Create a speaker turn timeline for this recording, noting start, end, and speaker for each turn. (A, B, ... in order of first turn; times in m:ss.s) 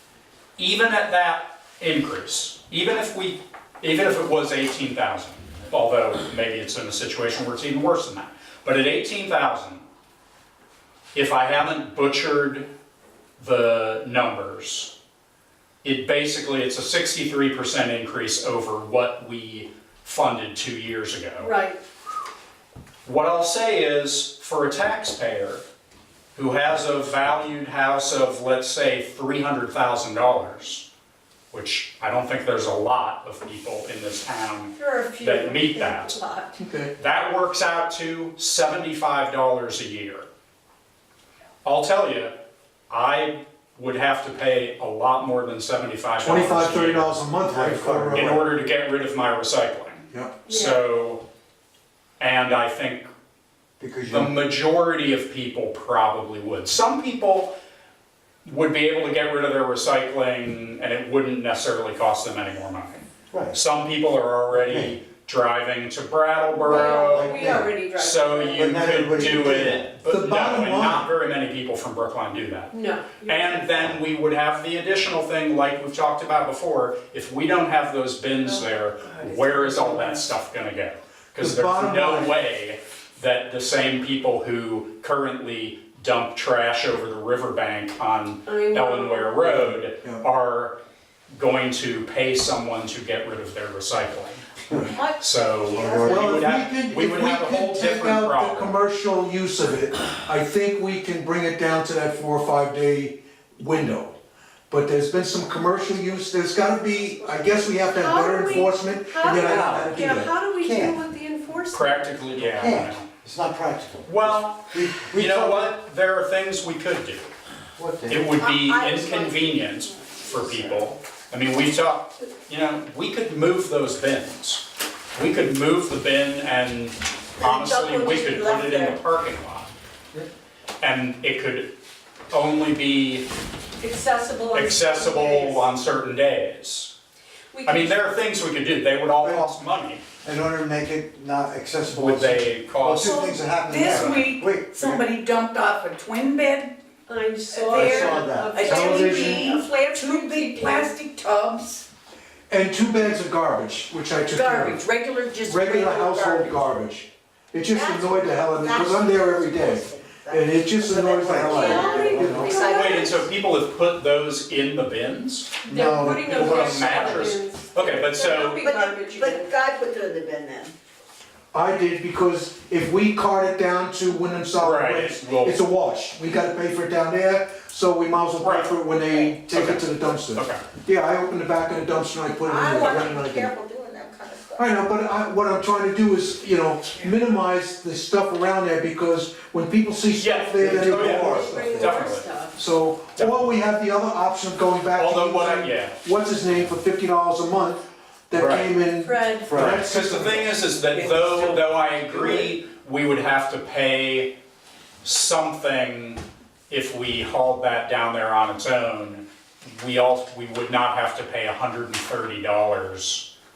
0:00.6-0:09.8 A
0:11.1-0:12.7 A
0:13.4-0:14.9 A
0:15.8-0:21.5 A
0:21.4-0:21.8 B
0:23.0-0:25.6 A
0:26.3-0:30.8 A
0:31.5-0:36.2 A
0:34.8-0:36.6 B
0:36.6-0:36.9 C
0:37.0-0:40.3 A
0:41.6-0:42.3 A
0:42.9-0:47.2 A
0:46.2-0:48.4 C
0:47.5-0:48.4 D
0:48.1-0:51.2 A
0:50.1-0:50.4 C
0:50.4-0:50.8 B
0:52.2-0:53.1 A
0:53.8-0:54.3 D
0:54.1-0:57.5 A
0:58.4-1:30.8 A
1:03.3-1:03.6 D
1:04.5-1:05.0 D
1:06.6-1:07.7 D
1:06.6-1:08.8 B
1:08.5-1:09.8 D
1:09.3-1:11.1 C
1:12.7-1:14.0 B
1:18.4-1:19.7 B
1:19.7-1:20.1 E
1:21.4-1:22.4 C
1:28.4-1:29.4 B
1:29.4-1:30.2 C
1:31.3-1:34.4 A
1:34.7-1:35.0 C
1:34.7-1:35.0 D
1:35.2-1:38.8 A
1:35.7-1:36.5 D
1:36.0-1:44.1 C
1:44.7-1:50.3 C
1:47.0-1:52.2 B
1:50.6-1:51.0 D
1:51.7-1:53.1 A
1:52.3-1:55.7 D
1:54.0-1:57.3 A
1:57.8-1:58.4 D
1:58.1-2:09.7 A
1:58.4-2:00.8 F
2:07.4-2:09.0 F
2:10.8-2:11.7 A
2:12.3-2:13.2 A
2:13.8-2:15.7 B
2:14.5-2:16.9 A
2:17.5-2:18.1 B
2:17.6-2:20.0 A
2:19.2-2:19.4 D
2:20.2-2:25.1 D
2:21.9-2:24.2 A
2:23.1-2:26.7 E
2:27.1-2:30.9 B
2:27.7-2:28.7 D
2:27.7-2:31.8 E
2:28.6-2:29.5 C
2:32.5-2:34.8 C
2:34.3-2:36.7 E
2:35.4-2:42.5 C
2:37.7-2:43.2 F
2:41.1-2:42.5 D
2:41.5-2:43.2 B
2:42.5-2:45.6 A
2:45.6-2:47.3 D
2:45.6-2:49.6 B
2:46.2-2:48.6 A
2:48.6-2:50.7 F
2:51.5-3:03.5 C
2:54.6-2:55.6 A
2:58.4-3:00.6 A
3:02.4-3:04.8 F
3:04.6-3:20.6 C
3:10.1-3:12.3 A
3:10.6-3:12.0 D
3:11.1-3:12.6 B
3:13.2-3:13.6 A
3:15.0-3:16.7 A
3:18.3-3:18.7 A
3:19.0-3:19.6 B
3:19.4-3:19.9 D
3:19.8-3:24.3 A
3:20.9-3:22.5 E
3:25.0-3:33.3 A